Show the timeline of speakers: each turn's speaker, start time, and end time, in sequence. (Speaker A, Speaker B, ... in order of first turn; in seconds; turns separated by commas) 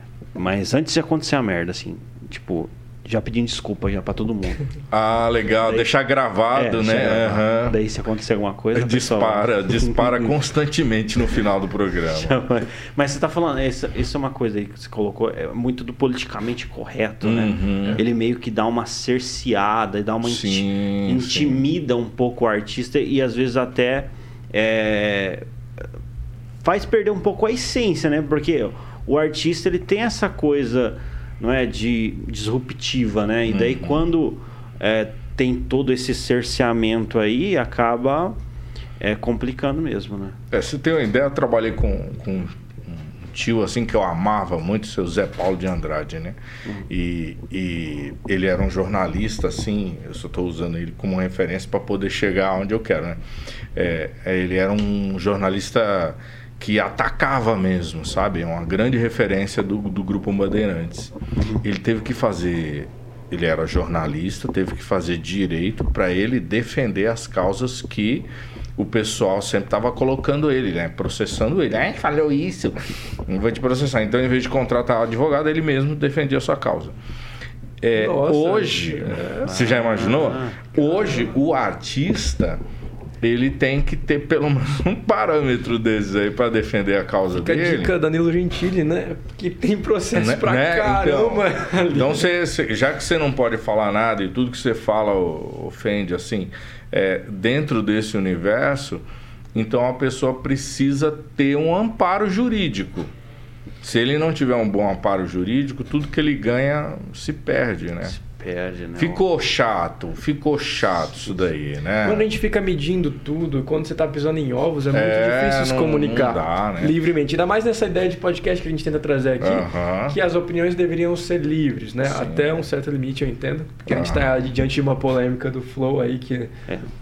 Speaker A: 0.4-4.7, Speaker B: 4.9-7.8, Speaker A: 5.6-6.0, Speaker A: 6.5-10.3, Speaker B: 8.7-12.4, Speaker A: 12.1-25.4, Speaker B: 17.2-18.0, Speaker B: 20.2-21.6, Speaker A: 26.6-38.4, Speaker B: 33.5-34.0, Speaker A: 39.0-40.4, Speaker B: 40.5-46.4, Speaker B: 46.9-53.2, Speaker B: 53.7-77.0, Speaker A: 61.4-61.6, Speaker B: 77.8-82.6, Speaker C: 77.9-79.6, Speaker A: 79.5-80.8, Speaker B: 83.2-87.9, Speaker C: 87.4-92.2, Speaker B: 90.1-99.0, Speaker B: 99.5-103.1, Speaker B: 103.8-108.2, Speaker A: 108.1-109.2, Speaker B: 109.0-112.3, Speaker C: 112.0-126.5, Speaker B: 114.9-117.0, Speaker B: 119.4-120.2, Speaker B: 122.1-122.5, Speaker B: 123.9-124.3